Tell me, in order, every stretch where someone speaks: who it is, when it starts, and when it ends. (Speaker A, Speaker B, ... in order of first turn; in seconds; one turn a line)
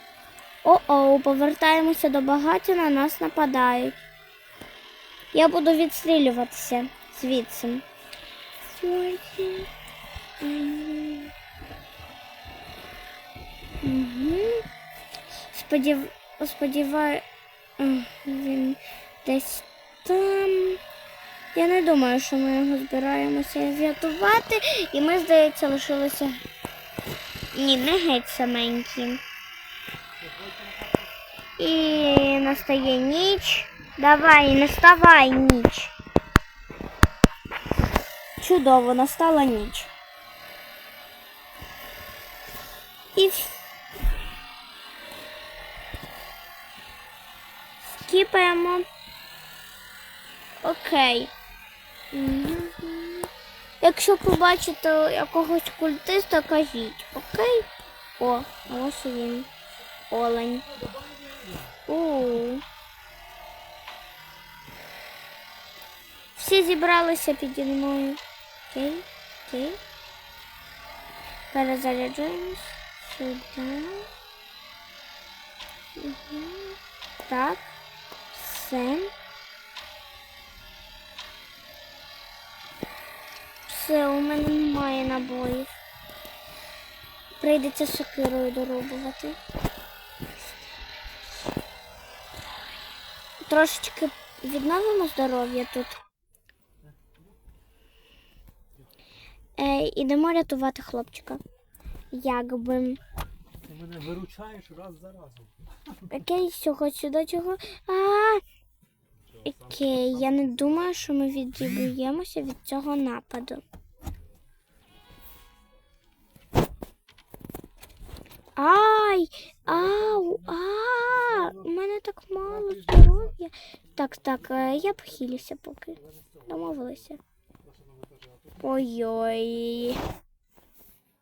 Speaker A: 0.6-4.0
Speaker A: 5.3-7.8
Speaker A: 8.6-9.7
Speaker A: 10.4-11.3
Speaker A: 13.8-14.6
Speaker A: 15.4-17.2
Speaker A: 17.8-20.8
Speaker A: 21.5-26.4
Speaker A: 27.5-29.2
Speaker B: 30.2-31.1
Speaker A: 31.6-35.9
Speaker A: 38.4-39.9
Speaker A: 43.1-43.6
Speaker A: 47.9-48.9
Speaker A: 50.6-51.3
Speaker A: 52.1-53.3
Speaker A: 53.8-59.5
Speaker A: 60.1-60.7
Speaker B: 60.9-61.7
Speaker A: 61.9-62.6
Speaker A: 66.3-69.8
Speaker A: 71.5-74.1
Speaker A: 76.0-77.7
Speaker A: 78.3-79.1
Speaker A: 83.7-85.8
Speaker A: 87.4-89.4
Speaker A: 93.4-96.0
Speaker A: 99.6-101.4
Speaker A: 102.1-103.0
Speaker B: 103.7-105.5
Speaker A: 106.0-108.4
Speaker A: 109.4-113.6
Speaker A: 118.6-127.2
Speaker B: 127.6-128.5
Speaker A: 128.6-130.0